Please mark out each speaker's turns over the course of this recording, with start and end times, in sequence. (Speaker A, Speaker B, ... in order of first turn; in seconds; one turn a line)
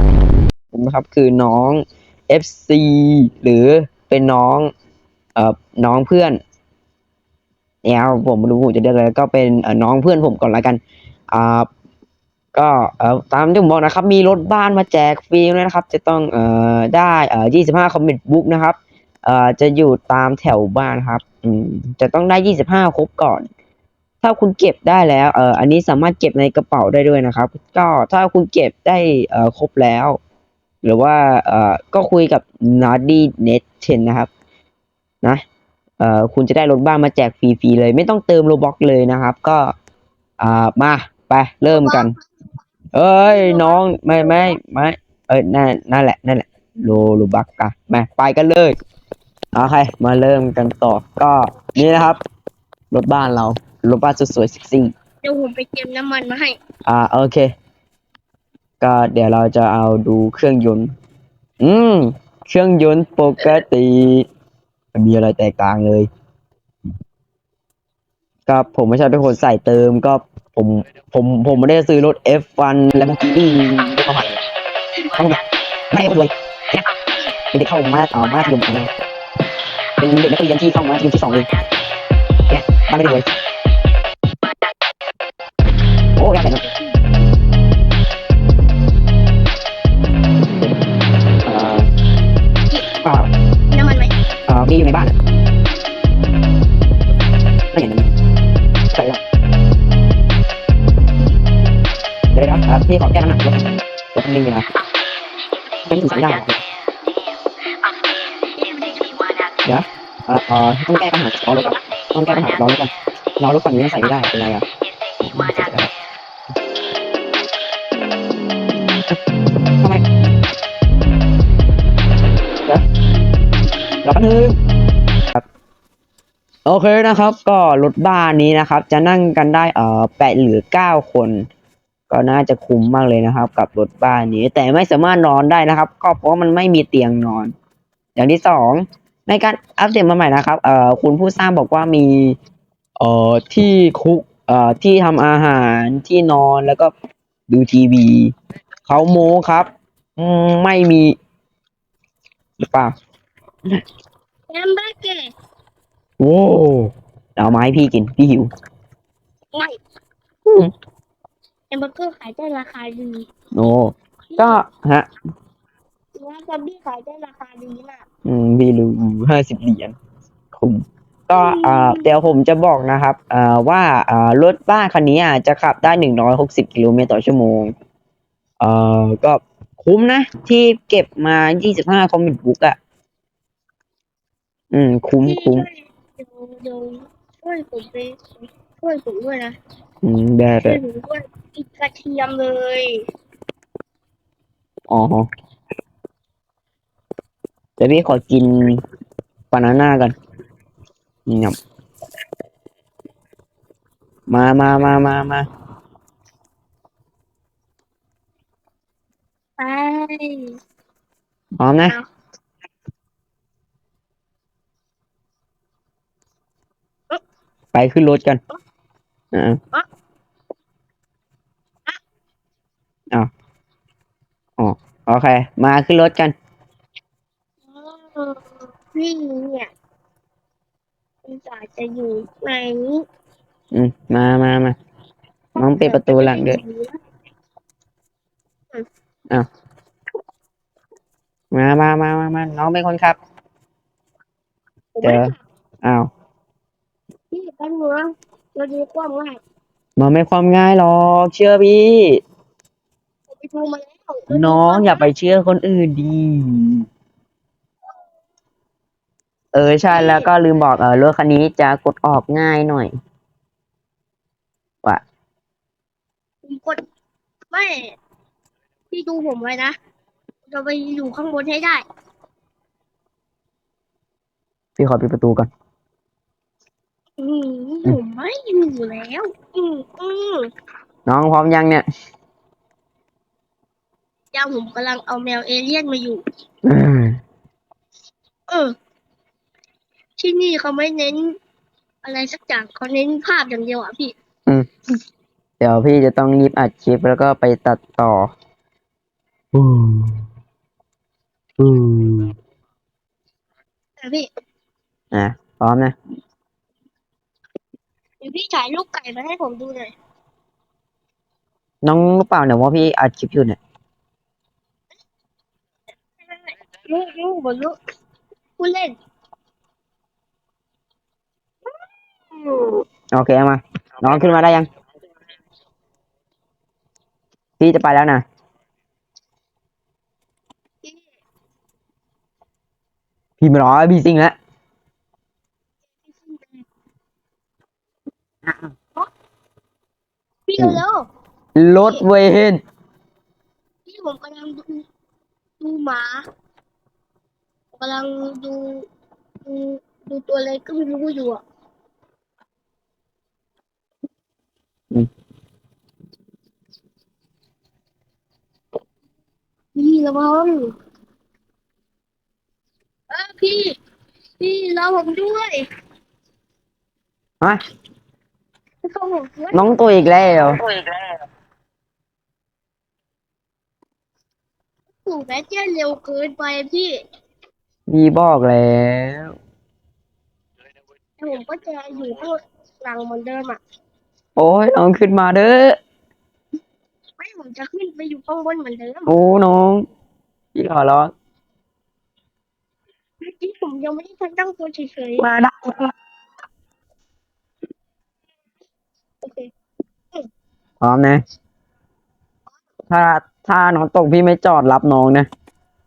Speaker A: 0.7-4.7
Speaker A: 5.4-6.4
Speaker A: 7.8-10.8
Speaker A: 11.3-11.7
Speaker A: 12.5-23.5
Speaker A: 24.2-30.2
Speaker A: 30.8-34.3
Speaker A: 36.0-39.7
Speaker A: 40.4-42.1
Speaker B: 41.7-42.4
Speaker A: 42.9-48.8
Speaker B: 43.2-44.6
Speaker A: 49.5-52.2
Speaker A: 52.9-54.9
Speaker B: 55.2-56.6
Speaker A: 56.9-57.5
Speaker A: 58.8-60.9
Speaker A: 61.6-64.3
Speaker A: 64.9-66.1
Speaker A: 68.5-74.4
Speaker A: 75.0-76.9
Speaker A: 77.5-78.9
Speaker A: 80.0-81.5
Speaker A: 82.5-83.3
Speaker A: 86.2-86.6
Speaker A: 91.5-91.9
Speaker A: 93.0-93.3
Speaker B: 93.7-94.1
Speaker A: 94.5-95.1
Speaker A: 97.7-98.1
Speaker A: 98.9-99.2
Speaker A: 102.3-104.7
Speaker A: 105.9-106.6
Speaker B: 108.6-109.4
Speaker A: 109.7-114.7
Speaker A: 115.2-115.9
Speaker A: 124.0-124.6
Speaker A: 126.7-131.5
Speaker A: 132.1-137.5
Speaker A: 138.2-142.4
Speaker A: 143.0-146.9
Speaker A: 147.5-148.3
Speaker A: 148.9-151.2
Speaker A: 152.6-152.9
Speaker B: 154.5-155.3
Speaker A: 156.2-158.5
Speaker A: 160.4-160.7
Speaker B: 161.7-163.3
Speaker A: 163.5-165.1
Speaker B: 164.3-164.6
Speaker B: 166.2-168.0
Speaker A: 168.2-169.9
Speaker A: 170.5-177.7
Speaker B: 171.3-172.1
Speaker A: 178.6-182.8
Speaker A: 184.7-185.7
Speaker B: 185.2-189.6
Speaker A: 190.0-190.8
Speaker B: 190.5-193.1
Speaker A: 194.9-195.3
Speaker A: 197.8-198.8
Speaker A: 199.5-200.2
Speaker A: 201.3-201.6
Speaker A: 204.3-205.5
Speaker B: 209.6-210.6
Speaker A: 211.6-212.0
Speaker A: 217.7-218.4
Speaker A: 224.6-226.3
Speaker B: 227.7-229.7
Speaker B: 231.2-233.0
Speaker A: 233.7-234.8
Speaker B: 235.6-237.0
Speaker A: 235.6-236.6
Speaker A: 241.5-243.2
Speaker B: 244.9-245.4
Speaker A: 245.0-246.1
Speaker B: 247.3-249.4
Speaker A: 250.0-252.2
Speaker B: 253.3-255.1
Speaker A: 254.3-256.9
Speaker A: 259.5-262.9
Speaker B: 259.9-260.3
Speaker B: 266.4-266.8
Speaker B: 267.5-267.9
Speaker B: 268.9-269.8
Speaker B: 270.5-271.8
Speaker A: 274.8-275.5
Speaker B: 277.2-280.5
Speaker A: 281.1-281.9
Speaker B: 284.3-286.2
Speaker A: 286.6-287.2
Speaker B: 288.5-288.7
Speaker B: 290.2-291.4
Speaker B: 292.0-294.1
Speaker A: 295.6-298.3
Speaker A: 299.5-300.2
Speaker A: 301.6-302.4
Speaker B: 304.0-304.3
Speaker A: 305.1-305.9
Speaker B: 308.2-309.9
Speaker A: 311.8-313.6
Speaker B: 316.3-317.8
Speaker B: 318.6-319.0
Speaker B: 322.3-322.8
Speaker A: 323.1-324.7
Speaker A: 327.6-328.2
Speaker B: 330.8-331.1
Speaker A: 333.4-334.4
Speaker B: 336.0-336.6
Speaker B: 340.5-341.1
Speaker A: 341.6-342.6
Speaker B: 343.9-344.9
Speaker B: 345.6-346.2
Speaker B: 347.8-348.9
Speaker B: 349.4-351.4
Speaker B: 359.8-360.7
Speaker B: 363.1-363.8
Speaker B: 364.4-365.7
Speaker B: 368.8-369.8
Speaker A: 369.5-370.6
Speaker B: 375.0-377.0
Speaker A: 377.9-379.4
Speaker B: 381.2-383.6
Speaker A: 384.4-385.8
Speaker B: 387.2-389.1
Speaker A: 389.1-389.9
Speaker A: 390.6-391.1
Speaker B: 393.2-395.3
Speaker A: 395.2-395.9
Speaker B: 399.2-399.5
Speaker A: 400.8-401.2
Speaker A: 402.9-405.3